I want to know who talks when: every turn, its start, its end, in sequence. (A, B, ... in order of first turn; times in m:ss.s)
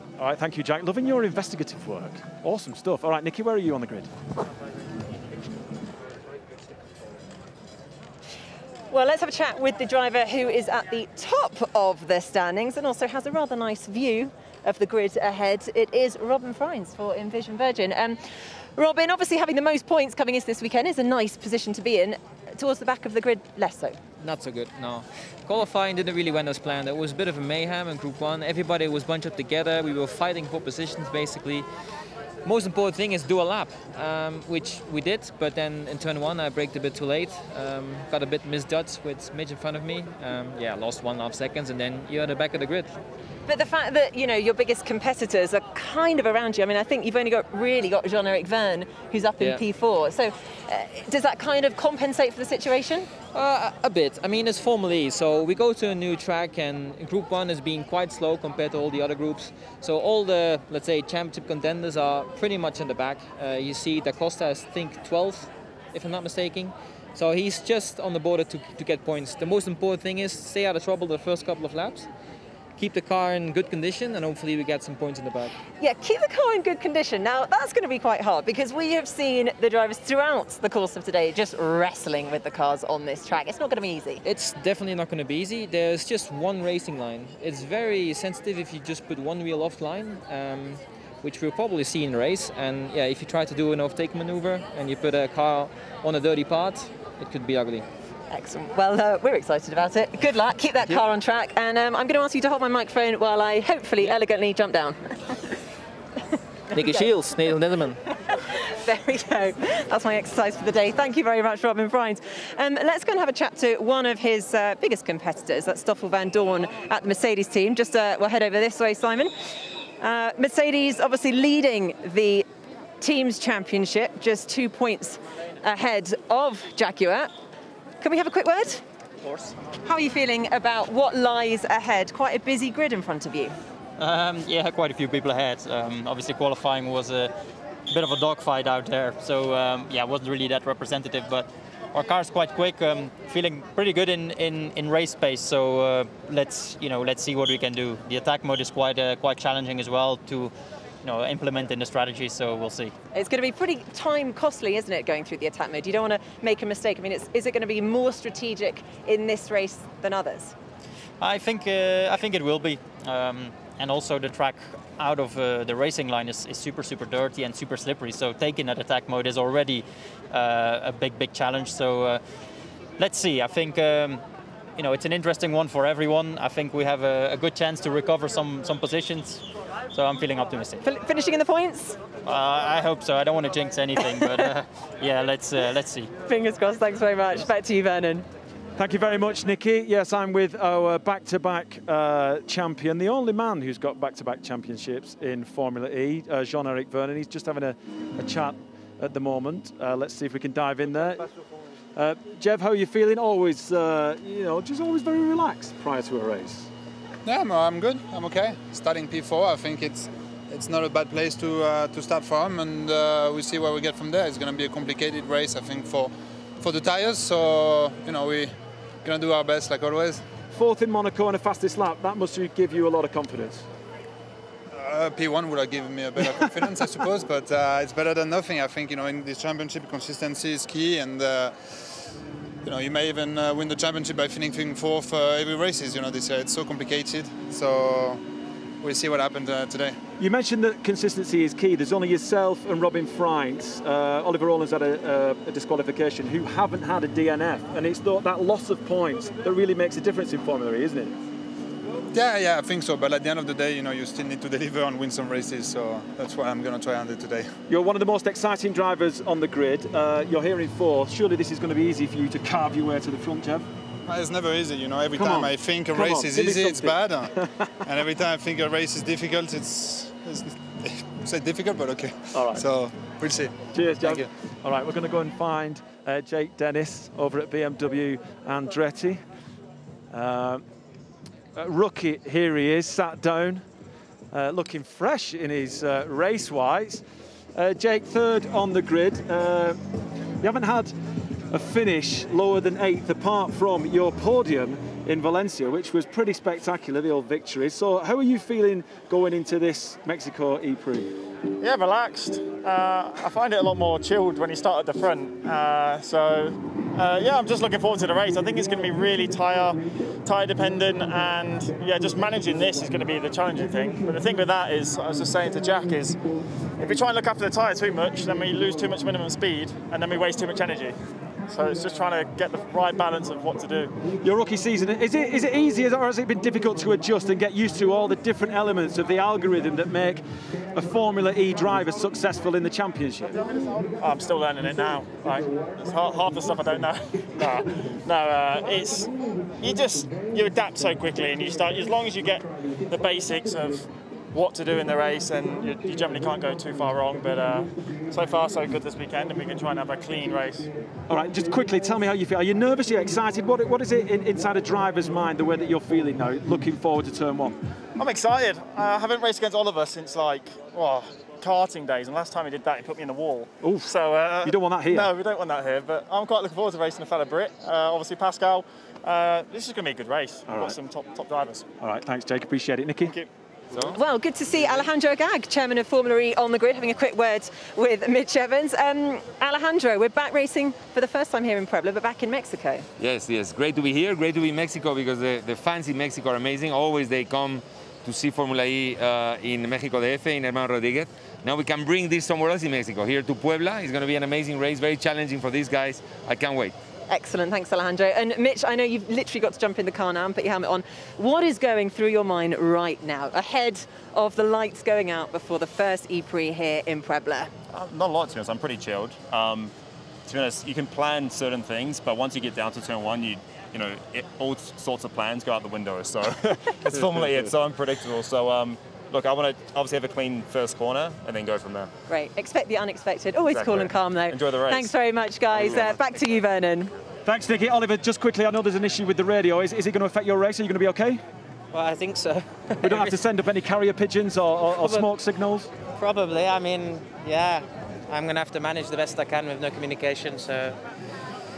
0:00.2-0:04.1 A
0:08.9-0:18.2 B
0:18.8-0:24.0 B
0:24.2-0:31.7 C
0:32.4-0:42.9 C
0:43.5-0:53.1 B
0:53.3-1:12.1 C
1:12.8-1:15.6 C
1:15.8-1:24.2 B
1:24.2-1:37.8 C
1:38.3-1:45.5 B
1:46.7-1:47.1 B
1:46.7-1:48.0 C
1:48.3-1:59.4 B
2:00.0-2:02.5 B
2:03.0-2:07.3 B
2:08.0-2:08.8 B
2:09.2-2:09.5 D
2:09.8-2:13.6 B
2:14.0-2:17.3 D
2:17.9-2:33.0 D
2:33.1-2:40.6 B
2:41.2-2:52.2 D
2:53.0-2:54.2 D
2:54.8-3:00.8 D
3:00.8-3:02.0 B
3:02.2-3:06.1 D
3:04.0-3:04.5 B
3:06.3-3:08.3 B
3:08.8-3:21.2 A
3:22.0-3:26.7 A
3:27.2-3:40.2 E
3:40.5-3:43.6 A
3:44.7-3:52.0 E
3:52.6-3:58.2 E
3:58.8-4:00.0 E
4:00.2-4:11.2 A
4:12.1-4:17.5 E
4:17.7-4:23.7 A
4:24.1-4:27.3 E
4:25.1-4:27.7 A
4:27.8-4:34.3 E
4:32.3-4:32.7 A
4:33.7-4:39.2 A
4:40.1-4:40.6 A
4:41.5-4:43.6 A
4:44.3-4:47.0 A
4:47.6-4:49.8 A
4:50.4-4:50.9 A
4:51.5-5:01.1 A
5:01.6-5:16.2 F
5:16.8-5:21.0 F
5:21.5-5:23.9 F
5:24.2-5:30.2 A
5:30.8-5:33.4 A
5:33.5-5:50.7 F
5:51.1-5:57.6 A
5:58.0-6:11.7 F
6:03.6-6:05.1 A
6:10.5-6:10.8 A
6:11.8-6:13.1 A
6:13.9-6:22.9 B
6:23.0-6:36.8 G
6:37.1-6:47.5 B
6:47.7-6:49.7 H
6:50.3-7:01.9 H
7:02.1-7:06.9 B
7:03.5-7:04.9 H
7:05.6-7:06.0 H
7:07.3-7:11.2 A
7:11.7-7:13.2 I
7:12.8-7:15.7 A
7:14.8-7:15.1 I
7:16.0-7:20.8 I